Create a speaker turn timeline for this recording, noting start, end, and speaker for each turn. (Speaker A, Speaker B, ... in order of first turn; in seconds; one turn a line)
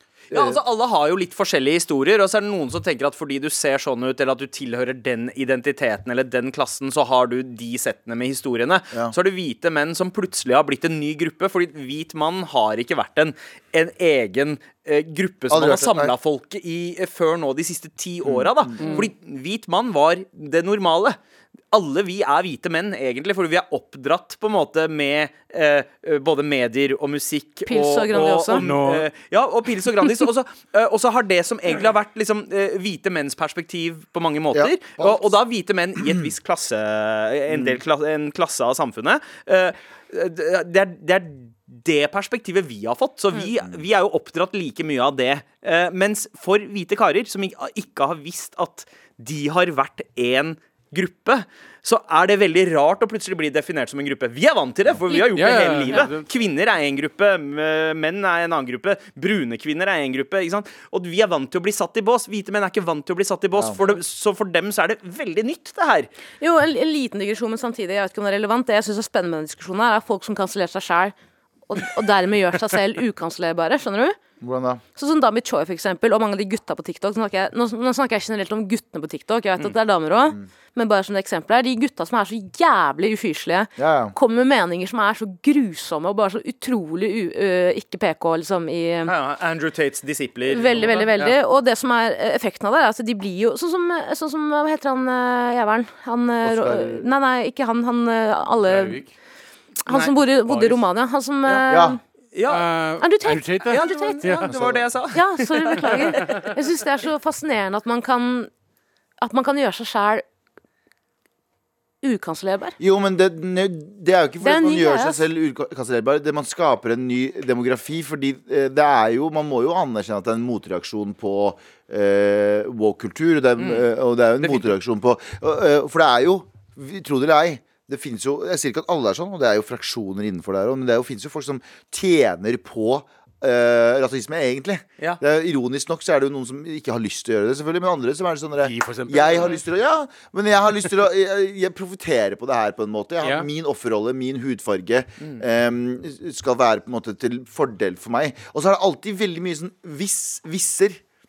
Speaker A: 0.3-0.6
Speaker B: 0.3-21.2
Speaker A: 15.5-16.1
Speaker A: 18.2-18.7
Speaker C: 18.8-19.1
Speaker D: 18.8-19.1
Speaker B: 21.7-66.1
Speaker D: 27.7-28.6
Speaker C: 28.5-29.1
Speaker A: 34.5-35.4
Speaker A: 37.5-37.8
Speaker C: 55.1-56.2
Speaker D: 66.4-71.1
Speaker D: 71.7-74.2
Speaker A: 74.4-74.8
Speaker D: 75.0-89.1
Speaker A: 83.8-84.1
Speaker B: 89.0-91.3
Speaker D: 90.5-99.0
Speaker A: 96.4-97.1
Speaker C: 98.6-99.1
Speaker D: 99.9-102.0
Speaker B: 99.9-100.8
Speaker B: 101.4-101.7
Speaker A: 101.7-102.0
Speaker B: 102.3-102.7
Speaker C: 102.5-104.5
Speaker D: 103.0-104.5
Speaker B: 103.7-106.3
Speaker A: 104.5-104.9
Speaker D: 105.1-108.5
Speaker C: 106.2-106.5
Speaker D: 109.2-110.2
Speaker D: 112.0-112.8
Speaker A: 112.8-151.0
Speaker D: 114.4-115.2
Speaker B: 123.6-123.9
Speaker C: 138.6-139.6